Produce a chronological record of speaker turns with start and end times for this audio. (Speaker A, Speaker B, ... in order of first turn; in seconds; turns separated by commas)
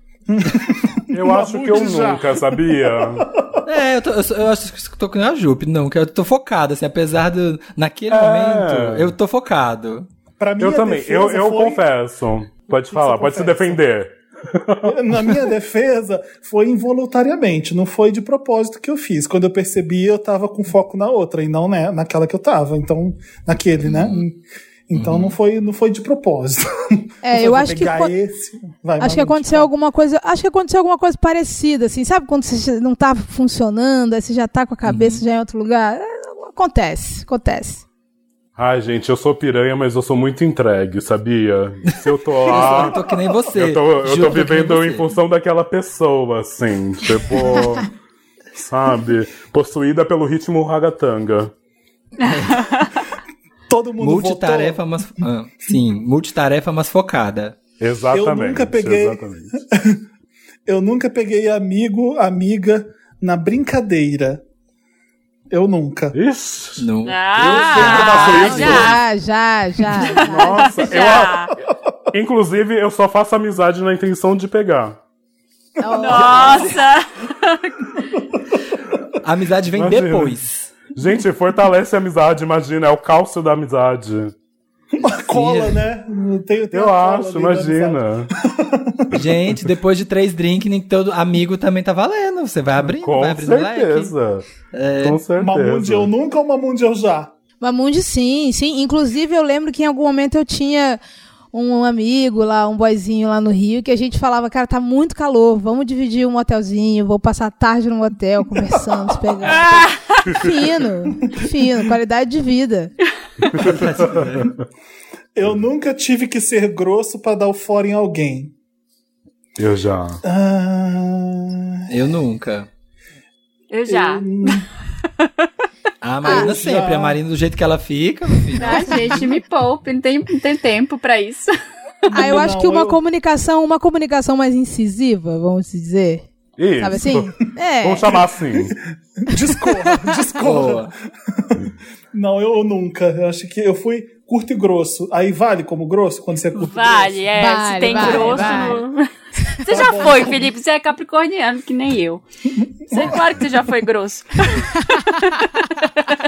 Speaker A: 0.3-3.6, Speaker B: 1.1-3.3, Speaker C: 3.6-10.1, Speaker B: 8.1-9.1, Speaker A: 10.4-11.8, Speaker B: 10.6-15.4, Speaker A: 12.7-13.8, Speaker A: 14.8-29.7, Speaker C: 24.9-25.4, Speaker D: 27.2-28.1, Speaker D: 29.0-37.8, Speaker C: 34.9-35.2, Speaker B: 38.6-47.9, Speaker C: 42.4-45.1, Speaker B: 48.5-51.5, Speaker C: 52.2-52.7, Speaker E: 52.3-53.0, Speaker A: 53.7-54.8, Speaker C: 54.0-57.6, Speaker B: 57.8-59.6, Speaker A: 58.1-60.0, Speaker A: 60.6-64.4, Speaker A: 65.5-66.2, Speaker B: 66.1-69.0, Speaker C: 66.8-68.9, Speaker E: 67.0-69.0, Speaker D: 68.3-70.7, Speaker E: 70.0-71.5, Speaker B: 70.2-71.5, Speaker B: 72.1-75.0, Speaker D: 75.8-76.8, Speaker A: 75.9-76.4, Speaker E: 75.9-78.0, Speaker C: 79.2-80.8, Speaker B: 79.8-80.3, Speaker B: 80.9-84.3, Speaker A: 85.0-89.4, Speaker C: 85.3-85.8, Speaker B: 86.7-88.3, Speaker C: 89.1-94.1, Speaker B: 93.0-94.5, Speaker C: 94.7-95.2, Speaker B: 95.0-96.1, Speaker A: 95.3-97.3, Speaker D: 97.6-101.0, Speaker D: 101.5-112.9, Speaker A: 108.8-109.2, Speaker E: 109.5-110.3, Speaker C: 113.6-114.5, Speaker A: 115.3-118.5, Speaker B: 119.6-120.2, Speaker A: 120.2-121.8, Speaker C: 121.9-122.7, Speaker E: 123.7-124.7, Speaker A: 123.8-124.7, Speaker C: 126.0-129.1, Speaker A: 126.2-127.2, Speaker D: 126.2-126.5, Speaker E: 128.5-131.5, Speaker A: 132.1-133.0, Speaker D: 132.1-136.2, Speaker B: 136.6-138.8, Speaker D: 136.8-138.1, Speaker A: 139.2-147.2, Speaker C: 140.4-140.9, Speaker E: 146.6-149.1, Speaker D: 147.3-148.8, Speaker A: 148.0-148.4, Speaker E: 149.6-152.2, Speaker A: 149.7-150.5, Speaker A: 152.6-153.4, Speaker E: 152.9-156.1